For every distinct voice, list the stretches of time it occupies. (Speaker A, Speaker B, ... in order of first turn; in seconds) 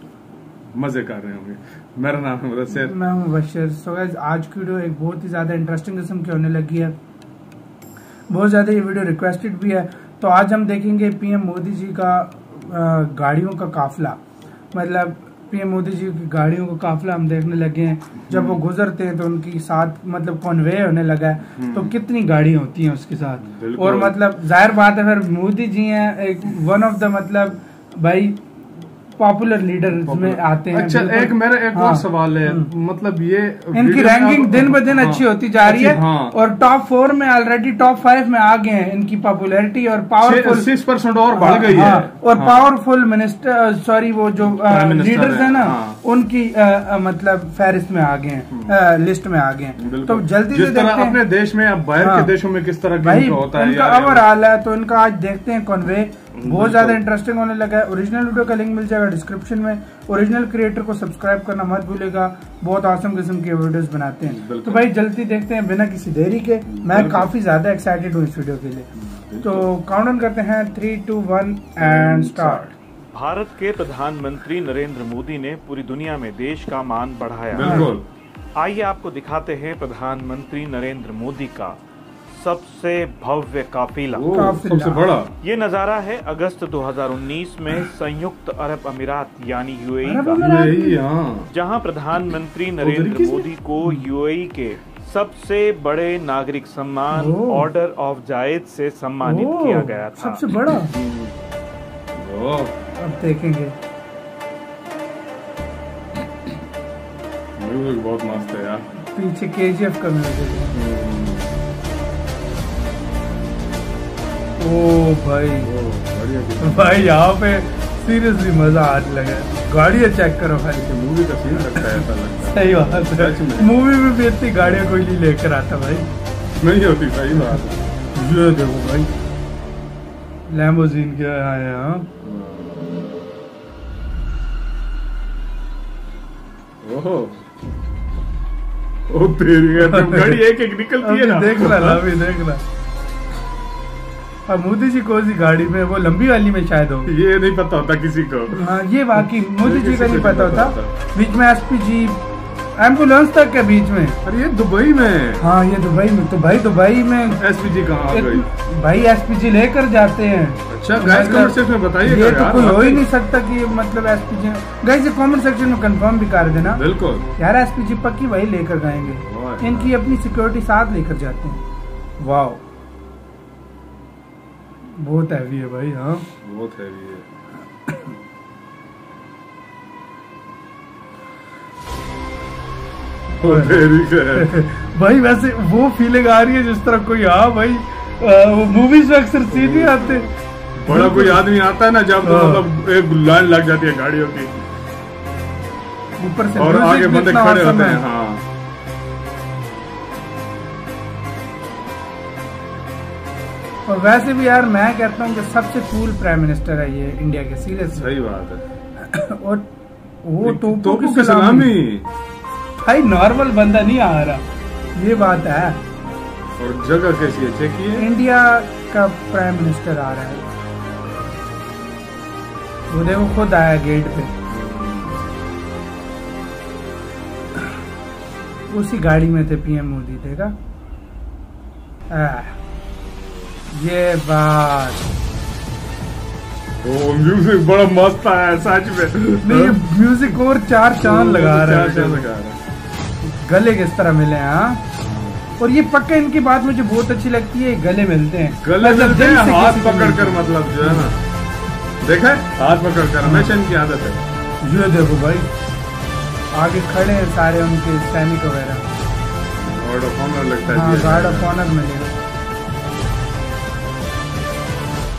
Speaker A: 0.7-2.9, 18.3-18.6, 21.6-21.9, 23.4-24.2, 30.0-36.4, 40.2-42.7, 44.5-46.0, 48.5-48.8, 49.8-54.2, 56.3-57.0, 64.3-64.9, 66.7-67.3, 69.0-69.7, 71.8-72.7, 77.5-78.0, 84.1-85.3, 90.3-91.5, 92.8-93.5, 100.9-101.3, 102.1-102.7, 107.6-108.8, 110.7-111.5, 115.6-117.1, 120.8-123.7, 126.6-127.9, 132.2-133.0, 136.8-137.4, 139.1-142.0, 147.1-150.9, 154.2-155.4, 157.3-158.5, 160.7-163.0, 166.7-167.3, 169.2-169.9, 176.4-177.2, 183.4-184.5, 189.5-190.3, 190.8-194.5, 196.6-198.4, 207.9-208.6, 210.4-212.1, 216.6-218.1, 224.5-225.2, 236.8-239.8, 241.0-242.6, 245.0-245.5, 248.6-251.2, 252.0-254.2, 259.6-261.5
Speaker B: 2.8-6.9, 8.3-14.2, 14.7-28.4, 29.2-32.7, 33.7-40.7, 41.3-51.2, 52.0-52.3, 53.0-68.9, 69.4-72.7, 77.6-77.9, 84.3-85.2, 90.0-91.0, 97.1-97.7, 99.2-101.0, 103.0-103.7, 109.1-110.7, 114.6-115.7, 116.6-120.9, 121.8-126.1, 128.1-129.1, 130.5-132.1, 139.8-140.4, 141.0-142.6, 144.5-147.1, 148.6-152.2, 152.8-154.2, 155.4-157.4, 158.1-166.8, 167.4-171.6, 172.2-172.6, 174.9-176.3, 183.4-190.3, 190.8-191.5, 192.2-192.7, 196.2-198.0, 203.8-208.1, 209.0-209.7, 210.2-211.8, 212.8-214.4, 214.9-215.8, 218.0-220.4, 222.9-224.3, 228.7-230.5, 232.1-232.6, 233.7-235.1, 239.4-242.3, 243.2-244.8, 245.6-251.0, 253.2-253.5, 254.6-255.5, 256.5-258.8, 260.7-262.1
Speaker C: 73.1-77.9, 78.5-81.8, 82.3-84.3, 85.4-90.5, 91.5-100.5